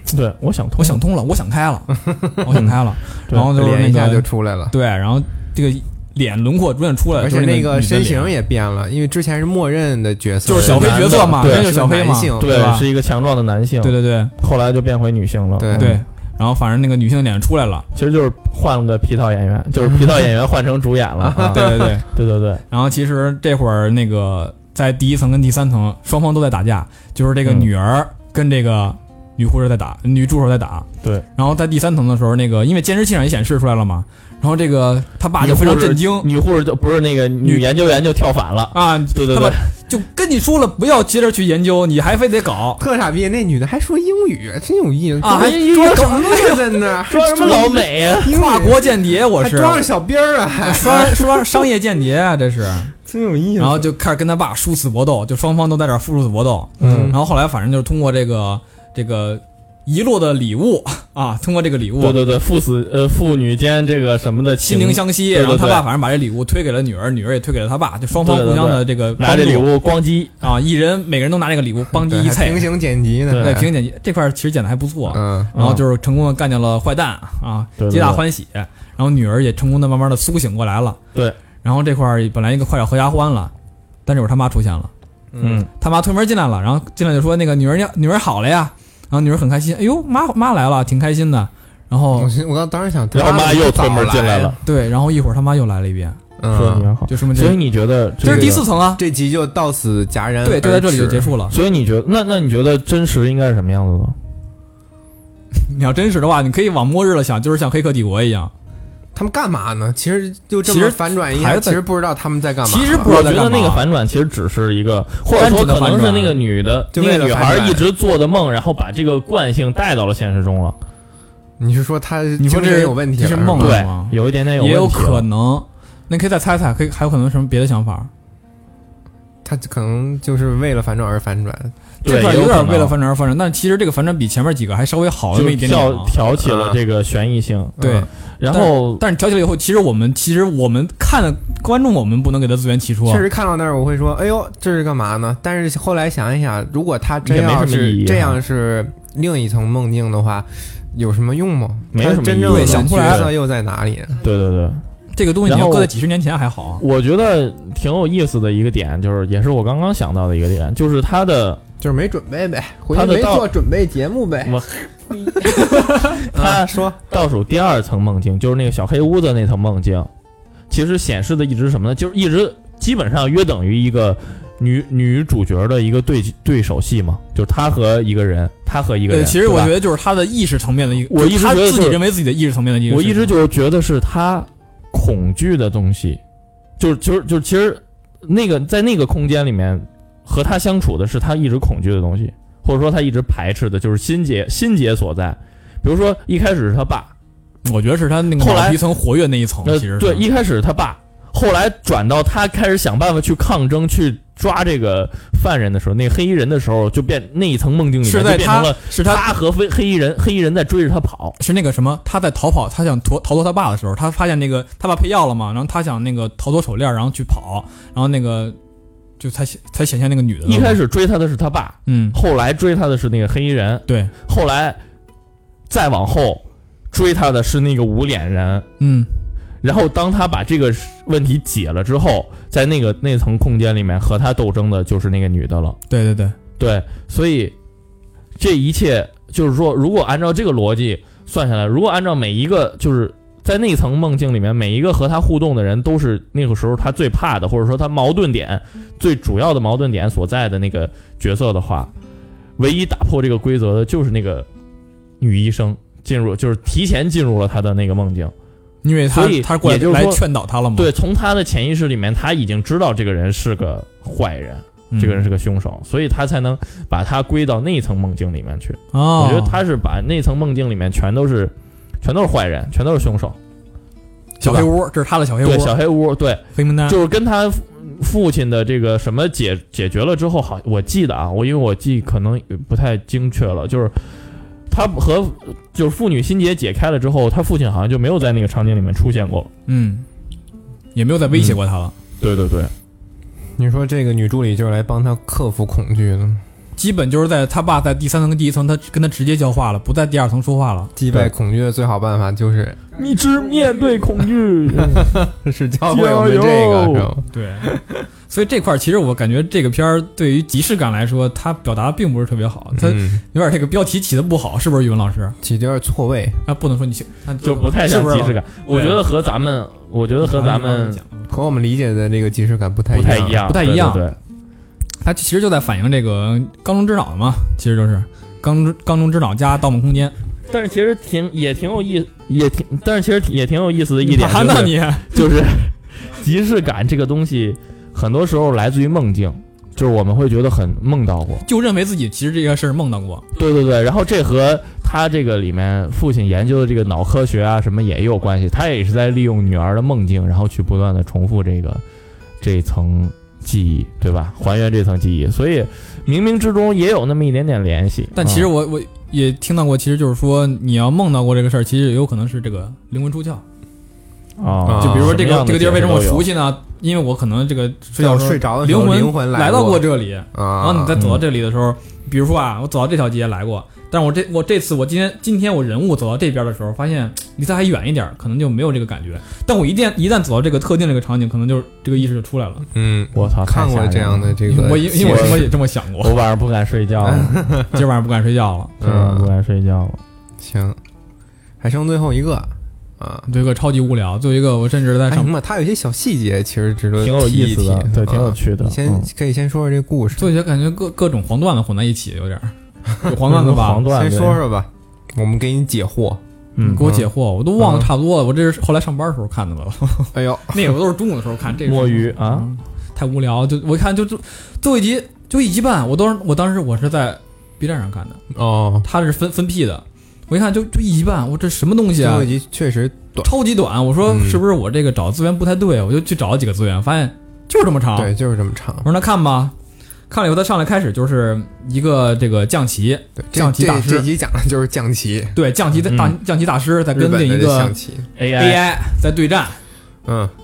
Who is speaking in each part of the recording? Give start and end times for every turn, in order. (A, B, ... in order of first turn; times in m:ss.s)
0:00.1-0:01.0 A
0:00.8-0:08.3 B
0:02.0-0:02.4 C
0:02.5-0:02.8 A
0:03.4-0:04.7 C
0:07.2-0:12.5 C
0:10.4-0:12.8 B
0:10.6-0:11.7 A
0:12.4-0:16.0 A
0:13.8-0:14.3 B
0:15.6-0:16.0 C
0:15.7-0:17.9 B
0:17.9-0:22.6 A
0:19.8-0:20.2 C
0:21.2-0:22.0 C
0:21.5-0:22.1 B
0:22.7-0:36.3 B
0:35.4-0:39.6 A
0:38.7-0:42.8 B
0:42.8-0:51.6 C
0:45.2-0:46.8 B
0:45.2-0:46.5 A
0:47.0-0:48.4 A
0:48.2-0:49.8 B
0:50.6-0:52.9 B
0:53.0-0:53.9 C
0:53.6-1:02.2 B
0:56.8-0:57.1 A
0:56.8-0:57.2 C
1:02.0-1:05.8 A
1:04.6-1:09.7 B
1:08.1-1:10.4 A
1:10.4-1:12.7 B
1:11.9-1:13.7 C
1:13.3-1:13.6 A
1:13.4-1:21.0 B
1:15.1-1:15.7 C
1:15.6-1:15.8 A
1:17.8-1:18.2 A
1:21.6-1:23.5 B
1:24.0-1:24.9 B
1:25.3-1:25.6 C
1:25.4-1:25.7 A
1:25.8-1:32.3 B
1:32.1-1:34.6 C
1:33.1-1:34.6 A
1:34.6-1:36.2 B
1:36.4-1:36.9 C
1:36.5-1:38.6 A
1:37.1-1:37.6 B
1:38.2-1:39.0 B
1:38.2-1:41.3 C
1:40.4-1:41.6 B
1:41.5-1:44.2 A
1:45.5-1:48.5 B
1:49.1-1:53.1 C
1:50.6-1:51.8 B
1:52.6-1:53.8 B
1:53.0-2:00.8 A
1:55.3-1:56.4 B
1:56.9-1:57.9 C
2:01.6-2:03.8 C
2:02.4-2:08.1 B
2:03.6-2:05.2 A
2:09.4-2:11.7 C
2:12.0-2:12.9 A
2:12.0-2:16.1 B
2:15.3-2:17.8 A
2:16.4-2:16.8 C
2:17.8-2:18.1 C
2:17.8-2:23.2 B
2:18.4-2:19.0 A
2:23.0-2:34.2 C
2:27.2-2:28.4 A
2:31.9-2:33.3 A
2:32.4-2:33.3 B
2:34.2-2:34.8 A
2:35.1-2:36.8 B
2:35.4-2:35.9 A
2:36.8-2:41.6 A
2:41.8-2:44.6 C
2:42.9-2:43.5 A
2:44.4-2:50.1 A
2:45.4-2:47.0 C
2:50.7-2:59.7 A
2:59.1-3:03.3 B
3:01.1-3:02.0 A
3:02.9-3:06.2 A
3:06.8-3:17.1 A
3:17.6-3:20.2 B
3:18.4-3:18.8 A
3:19.6-3:31.4 A
3:28.0-3:29.2 B
3:31.4-3:38.6 B
3:39.2-3:40.8 B
3:40.4-3:44.8 A
3:41.8-3:42.2 B
3:43.9-3:44.1 B
3:45.7-3:48.7 A
3:48.8-3:49.1 B
3:49.6-3:55.8 A
3:55.9-3:56.3 B
3:56.6-3:57.5 A
3:58.4-4:11.9 A
4:12.6-4:14.5 A
4:15.2-4:18.3 A
4:18.8-4:20.9 B
4:19.1-4:20.2 A
4:20.7-4:33.4 A
4:24.9-4:25.2 B
4:28.9-4:29.6 B
4:34.4-4:35.8 B
4:34.4-4:34.7 A
4:35.4-4:44.0 A
4:36.5-4:37.0 B
4:44.7-4:49.5 A
4:49.7-4:50.0 B
4:50.9-4:51.9 B
4:51.3-4:51.6 A
4:52.2-4:52.7 A
4:53.6-4:56.4 C
4:56.8-5:00.9 B
5:01.0-5:02.8 C
5:02.9-5:05.2 A
5:04.9-5:07.9 C
5:05.8-5:07.1 A
5:07.3-5:07.7 B
5:08.3-5:15.4 B
5:12.7-5:13.2 C
5:15.4-5:16.4 C
5:16.4-5:19.0 B
5:17.4-5:21.0 A
5:20.2-5:21.3 B
5:21.3-5:23.4 C
5:22.9-5:24.2 A
5:23.5-5:24.0 B
5:25.0-5:30.1 B
5:30.5-5:41.4 A
5:34.0-5:35.3 B
5:41.4-5:43.2 B
5:43.3-5:51.8 A
5:52.4-5:58.5 A
5:58.1-6:03.4 B
6:04.4-6:06.3 A
6:04.6-6:05.2 C
6:04.8-6:22.6 B
6:08.0-6:11.0 C
6:11.0-6:11.2 A
6:22.7-6:25.5 C
6:23.1-6:27.4 A
6:24.5-6:26.2 B
6:27.0-6:27.8 C
6:27.6-6:28.7 B
6:28.8-6:29.3 C
6:28.8-6:30.0 A
6:30.4-6:30.8 C
6:31.6-6:33.3 C
6:33.3-6:35.3 B
6:35.1-6:40.3 C
6:37.0-6:39.1 A
6:40.2-6:43.8 B
6:43.3-6:44.4 A
6:43.9-6:46.2 C
6:46.6-6:46.8 A
6:46.6-6:58.2 B
6:46.8-6:47.9 C
6:50.1-6:50.8 C
6:51.6-6:52.5 A
6:58.3-6:58.9 C
6:58.8-7:02.3 B
7:02.0-7:03.3 C
7:03.2-7:08.1 B
7:04.0-7:04.4 C
7:07.9-7:08.9 C
7:08.8-7:09.5 B
7:10.1-7:14.1 B
7:13.2-7:15.4 C
7:15.3-7:17.7 B
7:15.9-7:16.1 A
7:16.9-7:18.1 C
7:18.2-7:18.6 A
7:18.4-7:19.6 B
7:20.0-7:20.3 C